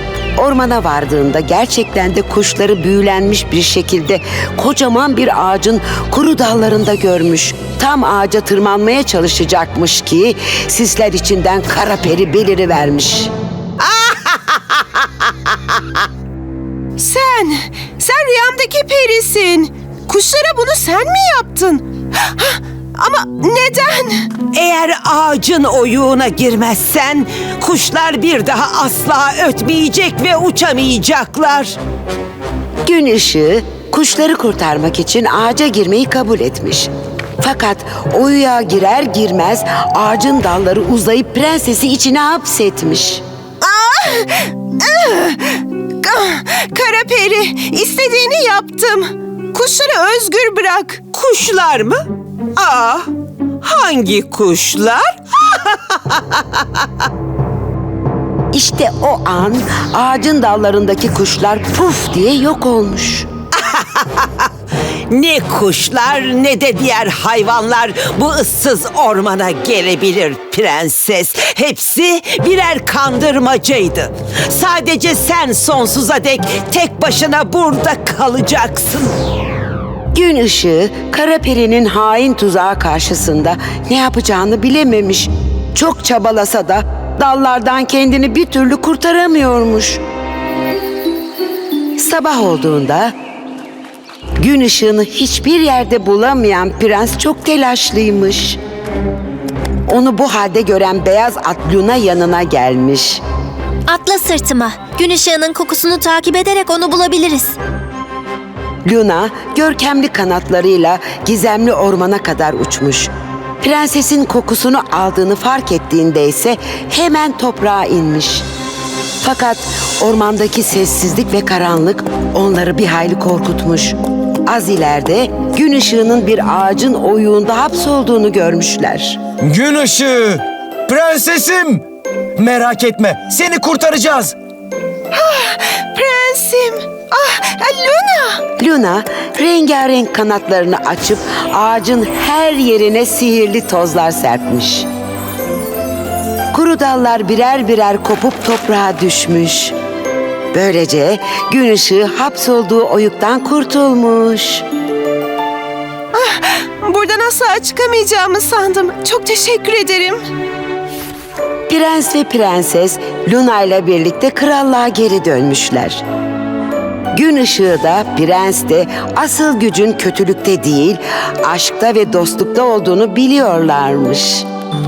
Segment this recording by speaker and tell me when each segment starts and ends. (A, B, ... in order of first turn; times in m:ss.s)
0:00.4-0:13.3 A
0:13.8-0:14.3 B
0:17.0-0:24.4 B
0:24.5-0:31.8 C
0:32.8-0:43.2 A
0:43.6-0:51.1 B
0:51.2-0:52.0 C
0:52.6-0:53.1 C
0:53.6-0:56.4 C
0:58.5-1:03.3 A
1:03.6-1:04.3 C
1:05.1-1:19.1 C
1:20.1-1:30.0 A
1:32.0-1:33.1 A
1:34.4-1:38.6 A
1:39.9-1:43.2 A
1:43.9-1:47.5 D
1:48.8-1:58.4 A
1:59.2-2:04.0 A
2:04.5-2:09.2 A
2:09.4-2:11.8 E
2:12.4-2:14.4 E
2:15.1-2:18.4 B
2:18.6-2:24.9 A
2:26.5-2:29.7 A
2:30.5-2:34.6 A
2:36.2-2:40.2 B
2:41.7-2:46.0 A
2:47.1-2:54.4 A